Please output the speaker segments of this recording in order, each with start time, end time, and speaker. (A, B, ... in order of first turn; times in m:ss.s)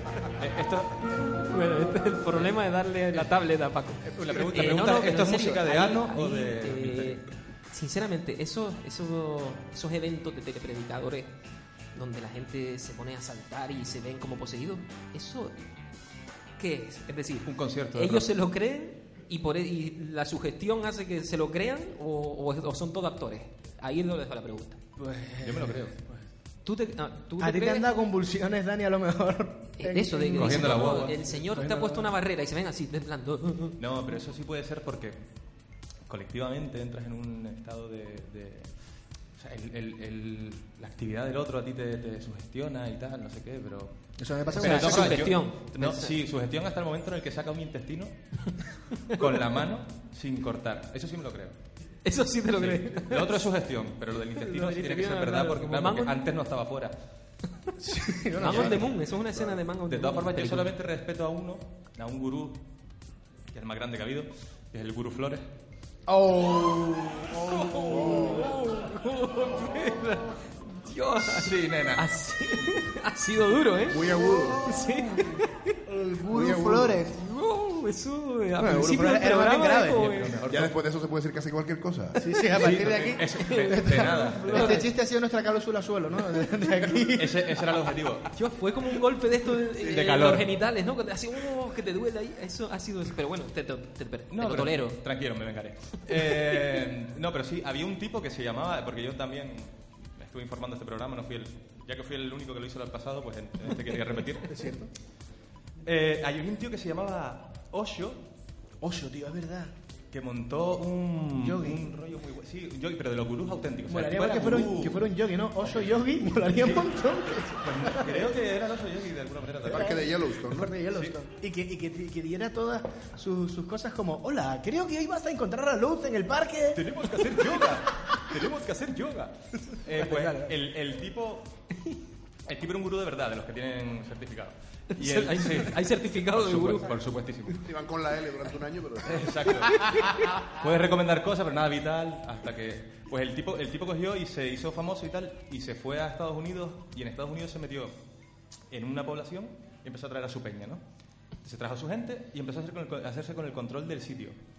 0:00.4-0:01.3 A
0:01.5-0:11.3 B
0:04.0-0:07.2 A
0:12.0-0:15.6 B
0:16.6-0:24.8 B
0:17.5-0:18.3 A
0:25.0-0:26.2 C
0:25.4-0:26.0 A
0:26.6-0:27.9 B
0:27.4-0:32.1 C
0:29.8-0:33.8 B
0:30.4-0:31.2 A
0:33.8-0:35.2 A
0:36.1-0:38.7 A
0:39.4-0:43.9 A
0:44.2-0:45.2 C
0:44.5-0:48.2 A
0:44.6-0:46.1 B
0:49.0-0:51.6 A
0:52.0-0:53.4 B
0:52.6-0:57.0 A
0:54.3-0:56.2 B
0:57.8-0:58.9 C
0:58.4-1:00.7 B
0:58.4-0:58.9 A
0:59.9-1:02.6 A
1:03.5-1:05.5 A
1:06.1-1:08.6 C
1:07.4-1:15.8 B
1:07.9-1:08.4 D
1:11.2-1:12.1 A
1:13.8-1:14.8 D
1:14.2-1:15.3 C
1:15.8-1:17.2 C
1:16.3-1:17.1 D
1:17.1-1:20.4 B
1:18.6-1:20.3 C
1:20.1-1:20.7 A
1:20.5-1:22.4 D
1:22.2-1:27.5 C
1:22.5-1:24.8 A
1:23.4-1:24.9 B
1:27.0-1:28.3 A
1:28.3-1:35.0 B
1:29.8-1:30.5 A
1:34.3-1:44.6 A
1:44.5-1:44.9 C
1:45.8-1:48.2 A
1:48.8-1:49.7 C
1:50.1-1:55.0 A
1:51.4-1:51.8 C
1:53.9-1:58.3 C
1:55.6-1:56.0 A
1:56.5-2:00.3 A
1:59.6-2:00.7 D
1:59.7-2:06.8 C
2:00.8-2:01.2 A
2:06.8-2:11.5 A
2:10.0-2:10.5 C
2:12.5-2:17.7 A
2:14.9-2:16.9 B
2:17.6-2:19.7 D
2:19.0-2:28.0 A
2:28.7-2:30.8 A
2:31.4-2:34.4 A